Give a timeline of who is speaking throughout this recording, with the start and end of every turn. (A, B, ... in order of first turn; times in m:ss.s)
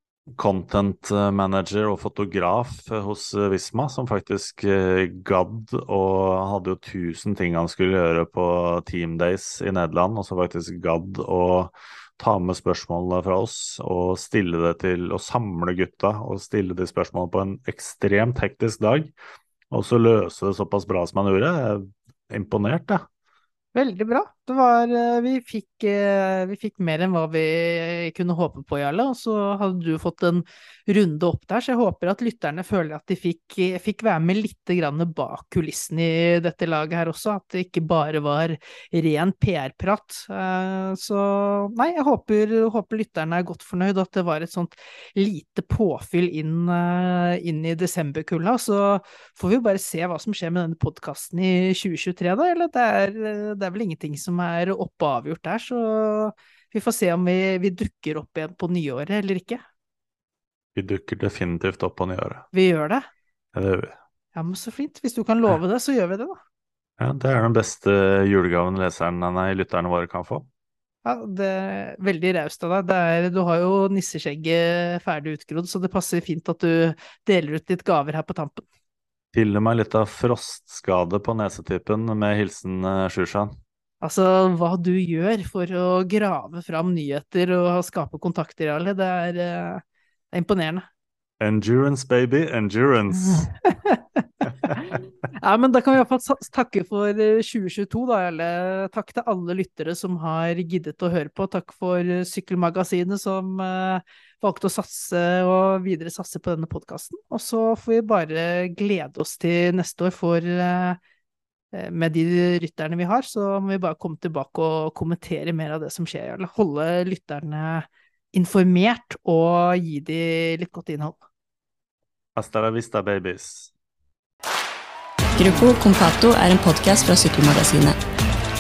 0:00.4-0:19.1 A
0:19.7-0:23.0 A
0:23.7-0:59.6 B
1:00.7-1:02.4 A
1:02.5-1:03.1 B
1:03.5-1:03.9 A
1:04.3-1:06.4 B
1:07.0-1:10.5 A
1:11.0-1:18.6 B
1:19.3-1:23.6 A
1:24.0-1:30.8 B
1:31.4-1:33.5 A
1:33.7-1:51.0 B
1:34.6-1:35.0 A
1:51.7-2:01.2 B
2:02.4-2:03.7 A
2:05.4-2:08.0 C